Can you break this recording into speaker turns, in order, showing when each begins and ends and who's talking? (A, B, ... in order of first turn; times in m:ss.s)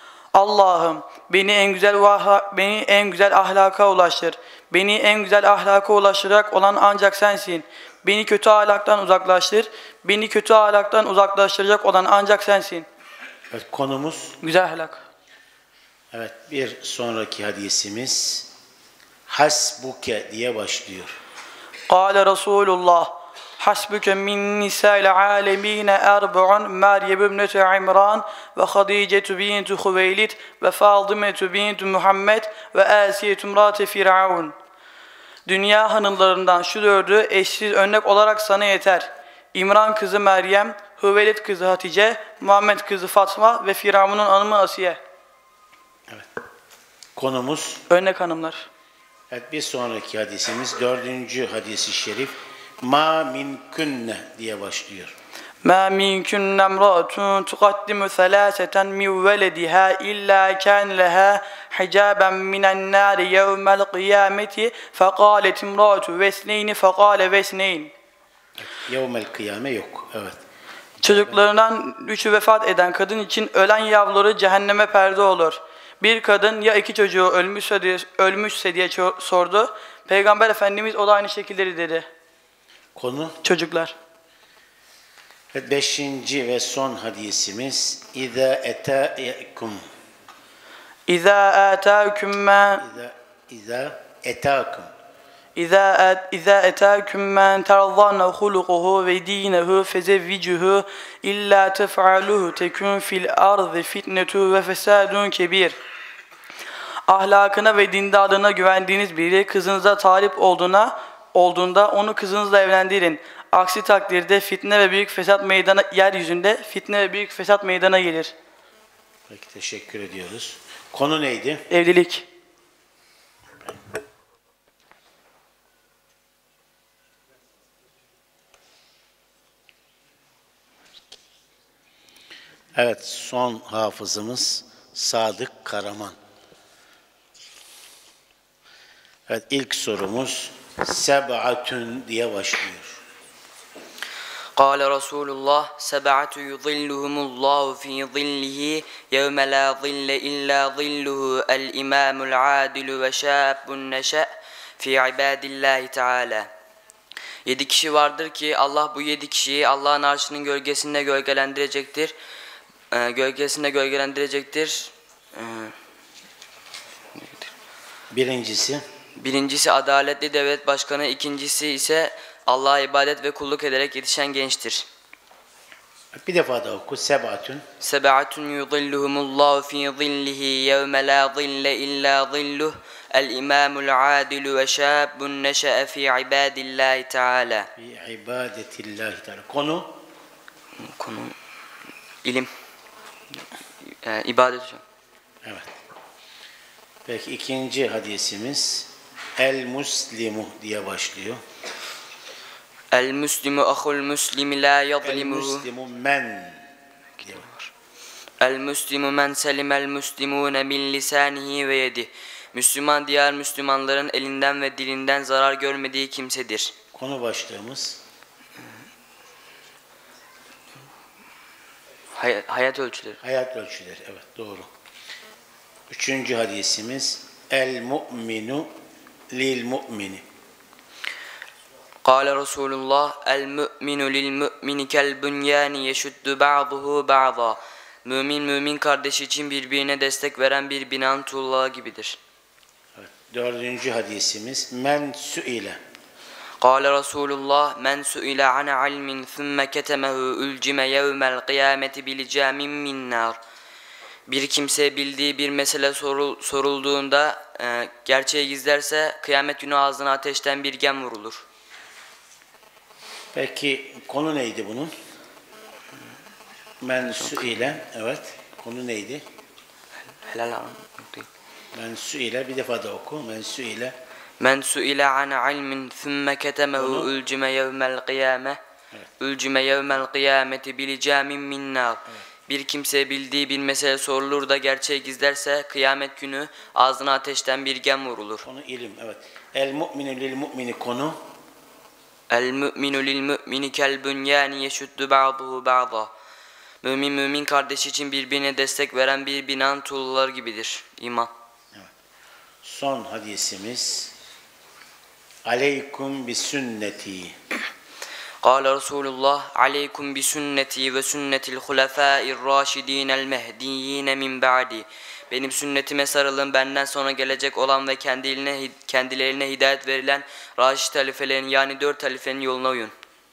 0:00.3-0:12.9 A
0:13.5-0:14.4 B
0:14.4-0:15.0 A
0:16.1-0:18.5 B
0:19.3-0:21.1 B
0:21.9-0:34.6 A
0:35.5-0:45.0 A
0:47.2-0:47.8 B
0:47.9-0:48.7 A
0:49.3-0:55.1 B
0:55.6-1:07.9 A
1:08.6-1:10.4 B
1:11.0-1:11.5 B
1:11.0-1:22.1 A
1:23.0-1:23.4 B
1:23.4-1:24.0 A
1:25.5-1:29.8 B
1:31.1-1:32.8 A
1:32.8-1:34.9 B
1:35.6-1:45.8 A
1:47.1-1:58.3 A
1:59.3-2:01.6 B
2:01.7-2:02.3 A
2:12.8-2:16.2 B
2:19.3-2:23.0 B
2:24.6-2:36.5 C
2:37.4-2:42.1 C
2:42.9-2:45.7 C
2:47.1-2:47.5 C
2:48.1-2:48.8 B
2:49.2-2:54.9 C
2:56.2-2:57.6 B
2:57.8-3:07.7 C
3:07.8-3:10.0 B
3:10.8-3:11.4 C
3:12.2-3:12.5 C
3:13.9-3:14.8 C
3:15.4-3:15.7 B
3:17.1-3:21.4 B
3:22.9-3:25.6 C
3:25.0-3:26.7 B
3:27.3-3:27.7 C
3:28.4-3:36.7 C
3:36.9-3:38.0 B
3:42.1-3:43.2 C
3:43.2-3:44.7 B
3:45.9-3:48.7 B
3:49.3-3:50.2 B
3:52.0-4:02.2 C
4:03.0-4:05.8 B
4:06.6-4:13.4 C
4:14.3-4:21.4 C
4:23.3-4:24.9 B
4:26.8-4:29.2 B
4:30.1-4:31.3 C
4:31.7-4:34.0 B
4:34.4-4:38.6 C
4:36.8-4:37.1 B
4:39.2-4:48.4 C
4:48.4-4:51.2 B
4:52.3-4:56.1 C
4:56.8-5:01.3 C
5:02.6-5:04.1 B
5:05.5-5:07.4 B
5:08.4-5:22.9 C